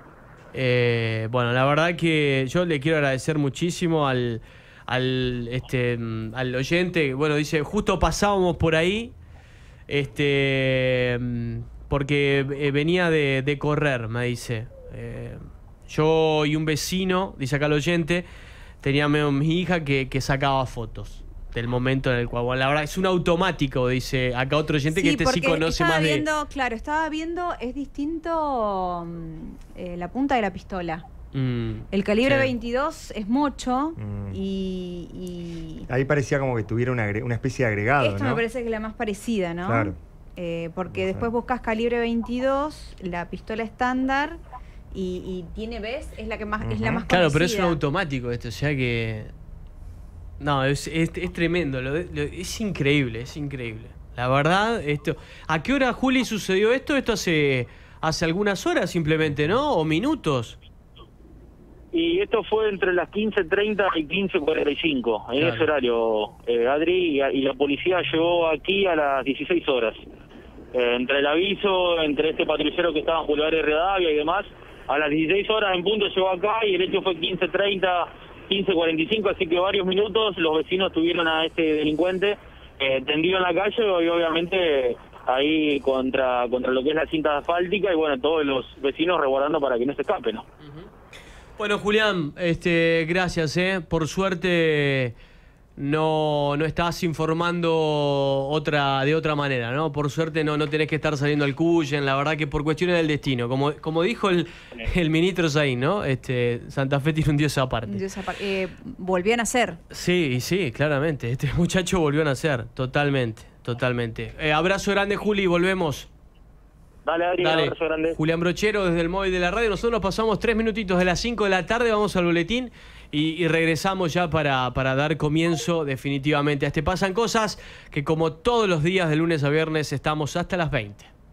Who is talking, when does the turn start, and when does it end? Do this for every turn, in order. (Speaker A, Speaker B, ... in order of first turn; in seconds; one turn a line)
Speaker A: 0.5-9.1
Speaker A: 9.9-18.2
Speaker A: 18.8-26.3
Speaker B: 24.9-31.1
Speaker A: 31.3-32.5
Speaker B: 31.9-35.9
Speaker C: 34.0-34.4
Speaker C: 35.9-38.4
Speaker B: 38.0-44.4
Speaker C: 39.6-40.0
Speaker C: 40.9-41.3
Speaker B: 44.9-47.8
Speaker C: 46.6-47.0
Speaker A: 47.1-49.3
Speaker A: 50.4-60.6
Speaker D: 61.9-70.0
Speaker A: 65.3-65.7
Speaker D: 70.7-90.5
Speaker A: 90.6-90.9
Speaker A: 91.6-95.1
Speaker A: 95.8-108.0
Speaker B: 107.9-109.8
Speaker A: 109.9-116.1
Speaker D: 117.0-118.2
Speaker A: 117.4-131.1